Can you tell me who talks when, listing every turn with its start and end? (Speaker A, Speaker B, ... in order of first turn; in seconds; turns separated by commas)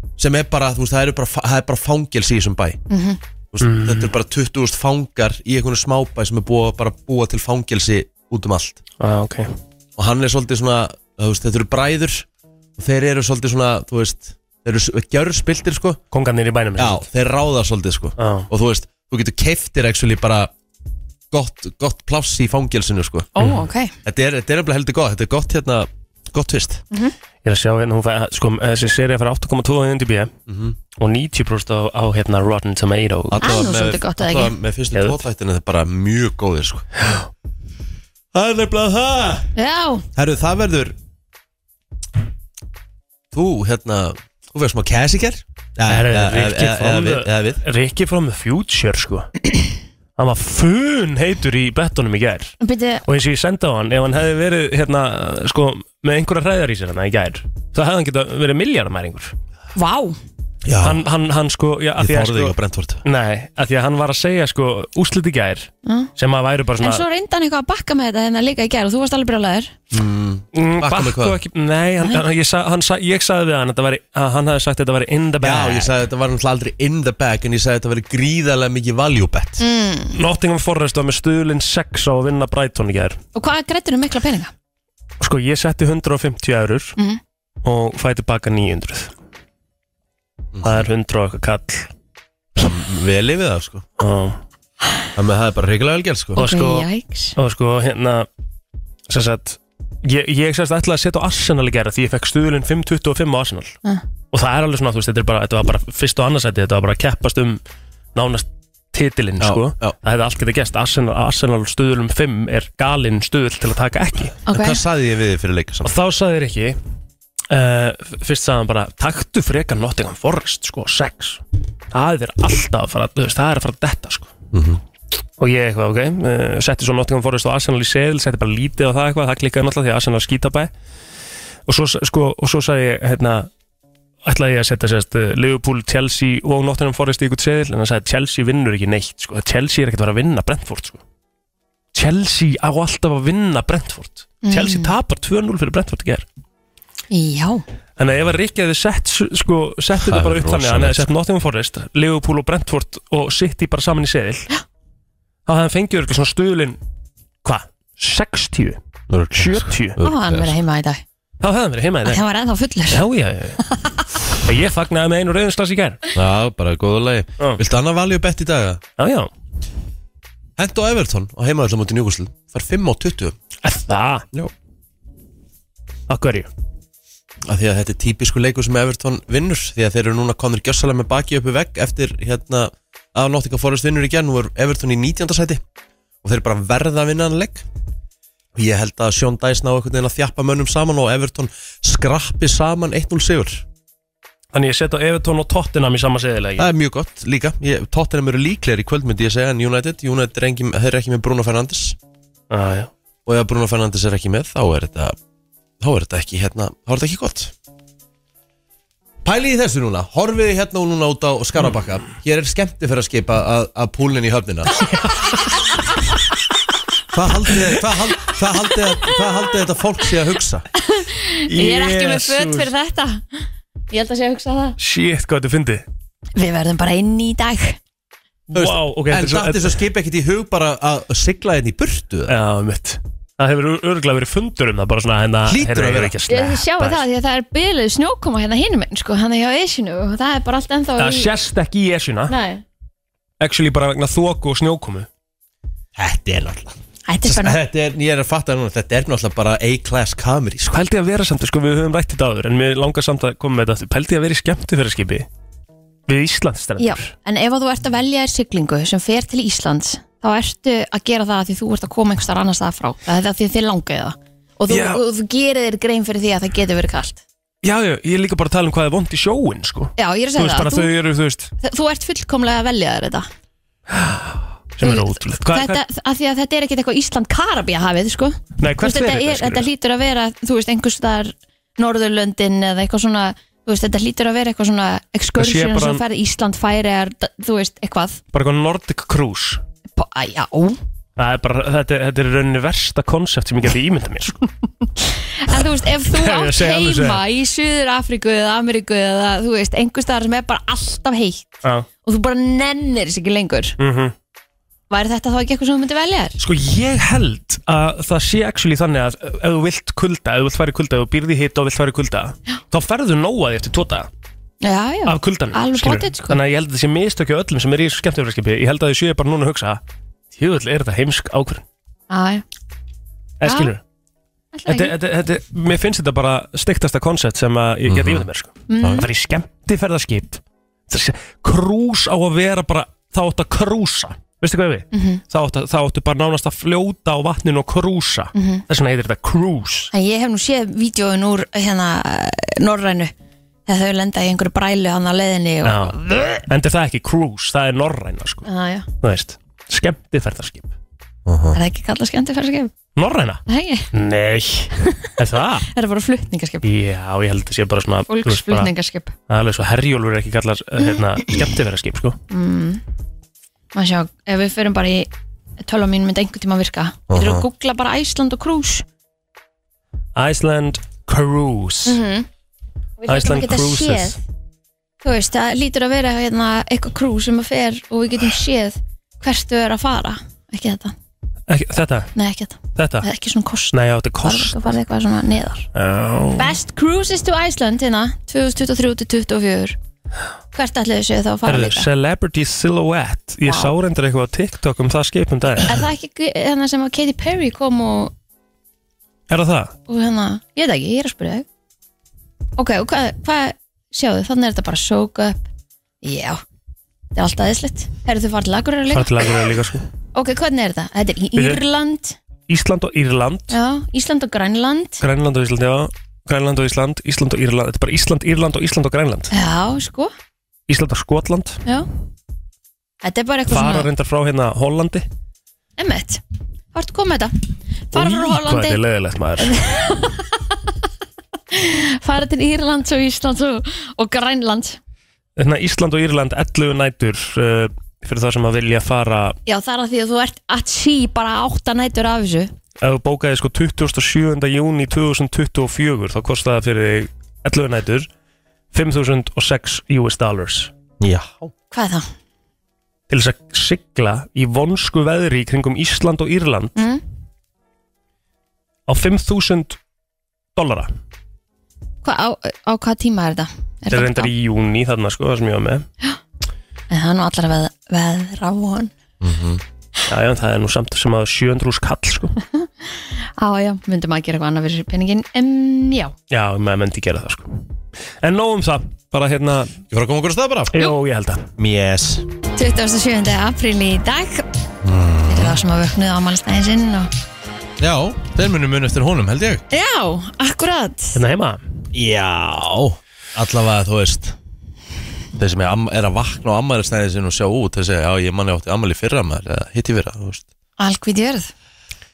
Speaker A: 0.2-2.8, Speaker B: 2.9-3.2, Speaker A: 3.5-8.8, Speaker C: 3.6-4.1, Speaker C: 9.0-9.5, Speaker A: 10.0-12.3, Speaker A: 12.8-16.0, Speaker C: 16.1-17.0, Speaker A: 16.8-20.5, Speaker C: 18.2-18.5, Speaker A: 21.3-23.3, Speaker B: 23.4-23.9, Speaker A: 24.1-26.8, Speaker C: 27.4-30.3, Speaker A: 30.5-30.8, Speaker C: 31.0-33.5, Speaker A: 33.3-36.9, Speaker B: 33.4-34.5, Speaker C: 34.9-35.2, Speaker A: 38.3-39.5, Speaker B: 39.6-40.0, Speaker A: 40.1-41.0, Speaker A: 43.3-47.6, Speaker C: 45.9-49.3, Speaker C: 50.2-52.5, Speaker B: 52.6-53.0, Speaker C: 53.1-59.4, Speaker B: 59.8-60.2, Speaker A: 60.6-61.0, Speaker C: 60.8-67.0, Speaker A: 62.0-63.0, Speaker B: 66.8-69.7, Speaker A: 69.9-71.4, Speaker C: 70.5-75.9, Speaker A: 75.4-79.6, Speaker B: 79.6-80.2, Speaker C: 80.1-83.2, Speaker B: 83.3-84.5, Speaker C: 85.2-87.0, Speaker C: 87.6-89.1, Speaker A: 90.5-90.8, Speaker C: 90.6-91.9, Speaker A: 92.6-93.9, Speaker C: 94.0-94.4, Speaker A: 95.2-96.5, Speaker B: 96.4-97.3, Speaker C: 96.4-98.3, Speaker C: 99.1-103.8, Speaker C: 104.3-107.6, Speaker C: 108.2-114.4, Speaker A: 109.4-110.0, Speaker B: 114.5-114.8, Speaker A: 114.5-115.9, Speaker C: 115.8-116.8, Speaker C: 117.5-124.3, Speaker A: 124.5-124.8, Speaker C: 125.4-130.7, Speaker C: 131.7-133.5, Speaker C: 134.2-141.0, Speaker C: 141.9-146.2, Speaker B: 144.4-144.9, Speaker B: 147.1-147.6, Speaker C: 148.0-154.5, Speaker A: 150.0-151.1, Speaker C: 155.5-156.8, Speaker C: 157.4-158.8, Speaker A: 159.1-160.5, Speaker C: 159.3-160.0, Speaker B: 160.0-161.0, Speaker C: 161.4-162.2, Speaker B: 162.1-163.0, Speaker C: 162.9-163.6, Speaker C: 164.4-166.0, Speaker A: 166.2-168.8, Speaker C: 169.0-169.3, Speaker A: 170.6-173.4, Speaker C: 173.6-174.2, Speaker C: 176.1-176.5, Speaker A: 177.5-185.6, Speaker A: 186.2-187.7, Speaker A: 188.6-193.6, Speaker C: 194.5-196.7, Speaker A: 196.6-202.0, Speaker C: 202.5-202.9, Speaker A: 203.3-205.2, Speaker A: 205.8-207.5, Speaker A: 209.2-214.8, Speaker C: 214.8-215.4, Speaker A: 217.1-220.7, Speaker B: 220.9-224.8, Speaker C: 221.5-222.7, Speaker C: 224.8-225.8, Speaker B: 226.4-227.8, Speaker C: 228.5-229.8, Speaker A: 228.5-232.3, Speaker C: 232.3-237.0, Speaker A: 235.4-236.1, Speaker B: 236.3-241.3, Speaker C: 241.0-242.3, Speaker B: 242.3-242.6, Speaker C: 243.4-245.1, Speaker A: 246.0-250.8, Speaker B: 247.1-247.6, Speaker C: 250.7-255.3, Speaker C: 256.1-257.1, Speaker B: 256.8-267.2, Speaker C: 264.7-265.0, Speaker C: 267.6-271.5, Speaker B: 270.0-270.9, Speaker B: 271.6-273.3, Speaker C: 273.9-275.8, Speaker B: 274.8-288.2, Speaker C: 278.6-279.7, Speaker C: 285.4-286.0, Speaker C: 288.3-289.6, Speaker B: 290.0-290.8, Speaker C: 291.2-294.5, Speaker B: 295.4-303.8, Speaker C: 295.5-297.2, Speaker C: 303.8-304.1, Speaker B: 304.9-306.4, Speaker C: 306.4-314.1, Speaker B: 314.6-316.4, Speaker C: 315.1-319.8, Speaker C: 320.3-321.6, Speaker B: 322.1-322.4, Speaker C: 323.4-323.8, Speaker B: 323.4-323.7, Speaker B: 324.5-324.9, Speaker C: 324.7-339.9, Speaker A: 327.9-328.3, Speaker B: 328.7-329.1, Speaker B: 334.9-335.2, Speaker B: 338.4-338.6, Speaker B: 339.9-343.1, Speaker B: 343.7-346.4, Speaker C: 345.6-348.5, Speaker B: 348.4-348.9, Speaker C: 349.0-350.7, Speaker A: 351.3-351.6, Speaker B: 351.5-352.7, Speaker C: 353.0-353.4, Speaker B: 353.5-353.9, Speaker C: 353.9-355.7, Speaker B: 354.8-355.1, Speaker B: 355.7-356.7, Speaker C: 356.6-358.7, Speaker B: 358.1-359.1, Speaker C: 359.3-362.2, Speaker B: 362.3-362.8, Speaker B: 363.7-365.1, Speaker B: 365.6-368.9, Speaker A: 367.1-367.5, Speaker C: 370.2-372.0, Speaker B: 371.9-372.3, Speaker B: 373.0-374.2, Speaker C: 373.1-374.2, Speaker B: 375.0-380.9, Speaker C: 381.5-382.1, Speaker B: 382.2-385.7, Speaker C: 382.8-383.1, Speaker C: 383.7-384.6, Speaker C: 385.8-386.5, Speaker B: 386.4-389.8, Speaker B: 390.5-391.9, Speaker C: 391.4-395.8, Speaker B: 393.5-393.7, Speaker B: 395.6-398.1, Speaker C: 399.3-399.7, Speaker B: 399.9-401.4, Speaker B: 402.6-405.5, Speaker B: 406.0-406.4, Speaker B: 407.1-409.3, Speaker C: 408.9-409.9, Speaker B: 410.1-412.2, Speaker C: 411.4-411.6, Speaker C: 412.5-413.5, Speaker B: 413.5-415.0, Speaker C: 415.0-419.3, Speaker B: 419.3-420.1, Speaker C: 420.7-421.6, Speaker B: 423.0-423.9, Speaker C: 423.5-425.1, Speaker B: 425.8-426.2, Speaker B: 426.7-427.4, Speaker B: 427.9-428.8, Speaker C: 427.9-429.5, Speaker B: 429.4-430.6, Speaker B: 431.5-434.8, Speaker C: 435.4-439.4, Speaker B: 439.5-442.5, Speaker C: 442.8-448.1, Speaker C: 448.7-450.7, Speaker A: 451.0-451.5, Speaker B: 451.7-452.1, Speaker C: 453.1-456.8, Speaker B: 456.8-457.0, Speaker C: 458.9-459.8, Speaker C: 460.6-460.9, Speaker B: 462.0-464.3, Speaker C: 463.9-465.9, Speaker B: 466.9-468.9, Speaker A: 469.2-469.6, Speaker C: 470.1-472.3, Speaker B: 472.5-476.1, Speaker C: 476.3-477.7, Speaker C: 478.2-479.8, Speaker A: 479.9-480.8, Speaker C: 480.7-481.5, Speaker A: 481.6-482.3, Speaker B: 482.6-484.5, Speaker A: 484.8-485.6, Speaker B: 485.3-487.1, Speaker A: 487.8-489.6, Speaker B: 489.7-491.2, Speaker C: 491.1-491.6, Speaker A: 491.9-494.4, Speaker A: 495.4-500.5, Speaker B: 500.8-501.5